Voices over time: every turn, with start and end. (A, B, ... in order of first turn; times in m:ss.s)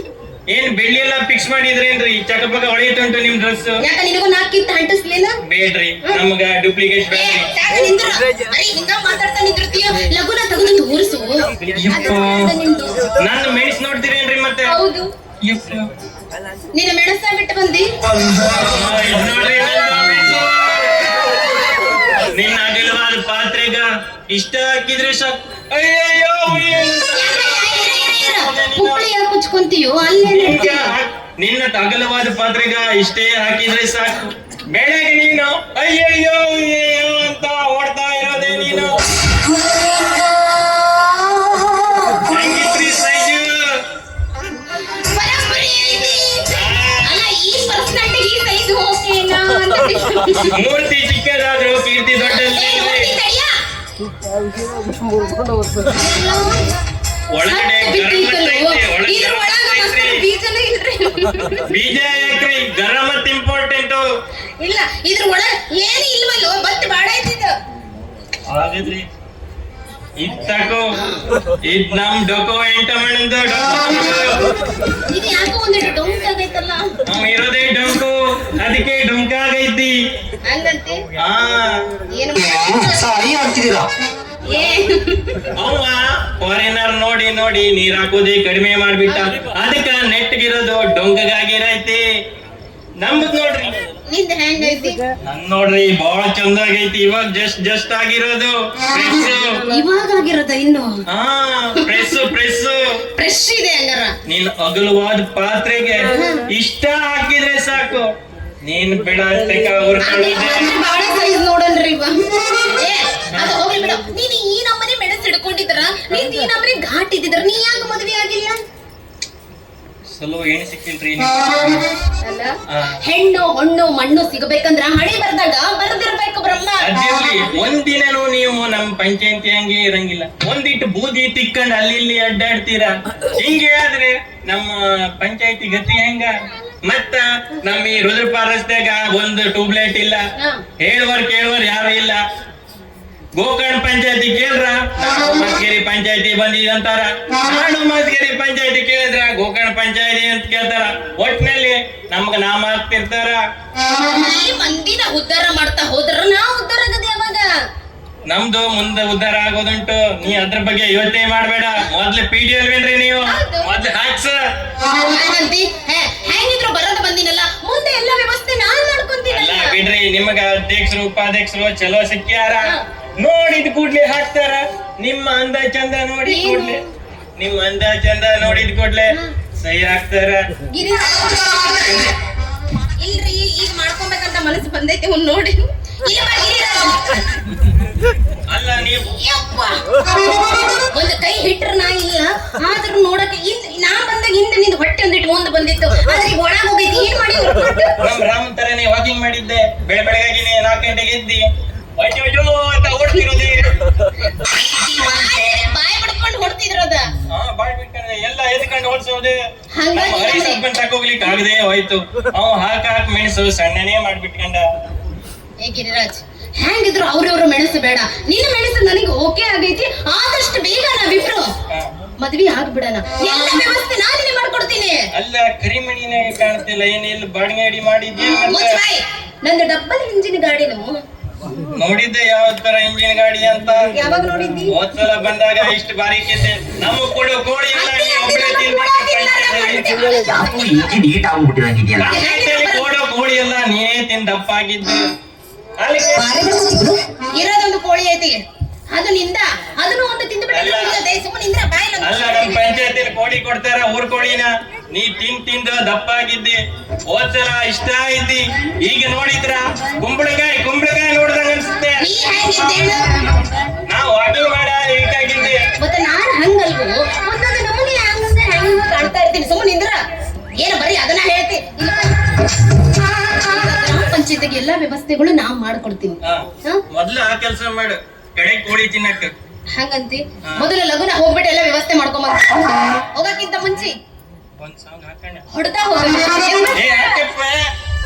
0:00.5-0:03.8 A
0:03.8-0:05.4 B
0:05.4-0:07.5 A
0:07.1-0:13.0 B
0:11.7-0:12.5 A
0:13.2-0:14.8 A
0:14.6-0:15.1 B
0:15.4-0:15.9 A
0:16.7-0:17.9 B
0:18.3-0:21.2 A
0:22.3-0:29.1 A
0:27.1-0:30.9 B
0:30.3-0:39.0 A
0:42.3-0:43.8 A
0:44.8-0:50.5 B
0:46.4-0:47.2 A
0:50.5-0:53.1 A
0:52.4-0:53.5 B
0:55.8-0:56.6 B
0:57.3-1:00.2 A
0:57.4-1:01.6 B
1:01.7-1:04.0 A
1:04.6-1:07.5 B
1:08.5-1:09.1 A
1:10.2-1:10.9 A
1:10.9-1:11.2 B
1:11.6-1:14.4 A
1:15.1-1:17.0 B
1:17.0-1:20.0 A
1:20.4-1:21.0 B
1:21.2-1:21.8 A
1:22.1-1:23.0 B
1:22.5-1:23.9 C
1:24.5-1:25.4 B
1:25.5-1:32.0 A
1:33.0-1:33.8 A
1:34.1-1:35.0 B
1:35.2-1:39.6 A
1:39.7-1:41.0 B
1:41.1-1:42.8 A
1:41.8-1:42.2 B
1:43.1-1:44.1 B
1:44.3-1:48.1 A
1:46.1-1:46.4 B
1:48.6-1:50.7 A
1:50.0-1:58.6 B
2:00.2-2:01.8 A
2:02.2-2:06.9 B
2:02.7-2:02.9 A
2:06.8-2:20.2 A
2:20.4-2:20.6 B
2:20.8-2:22.2 A
2:23.4-2:33.4 A
2:34.0-2:37.5 B
2:38.3-2:44.4 A
2:43.3-2:43.7 B
2:45.0-2:49.8 B
2:49.3-2:56.8 A
2:56.2-2:56.9 B
2:57.4-3:00.4 A
3:00.7-3:02.1 B
3:01.8-3:02.1 A
3:03.0-3:07.2 B
3:08.5-3:09.1 A
3:09.2-3:09.8 B
3:10.9-3:18.0 B
3:18.0-3:21.4 A
3:22.0-3:23.7 A
3:24.7-3:27.1 B
3:24.7-3:25.3 C
3:27.3-3:29.4 A
3:29.7-3:30.6 B
3:29.9-3:34.6 A
3:35.6-3:41.5 B
3:42.2-3:45.0 B
3:45.1-3:48.7 A
3:48.3-3:51.0 B
3:51.7-3:53.8 A
3:53.9-3:54.7 B
3:54.7-3:59.8 A
3:57.7-4:00.3 B
4:00.0-4:02.2 C
4:02.0-4:05.0 A
4:02.0-4:02.9 B
4:05.8-4:06.4 A
4:06.2-4:07.0 C
4:07.4-4:08.4 B
4:08.9-4:12.8 B
4:10.5-4:11.0 A
4:12.0-4:22.0 A
4:22.0-4:23.4 B
4:23.9-4:25.6 A
4:25.8-4:30.0 B
4:30.6-4:32.2 B
4:33.4-4:36.8 B
4:36.2-4:39.3 A
4:39.8-4:42.6 B
4:43.1-4:43.9 B
4:44.6-4:45.4 A
4:45.5-4:47.1 B
4:46.7-4:47.6 A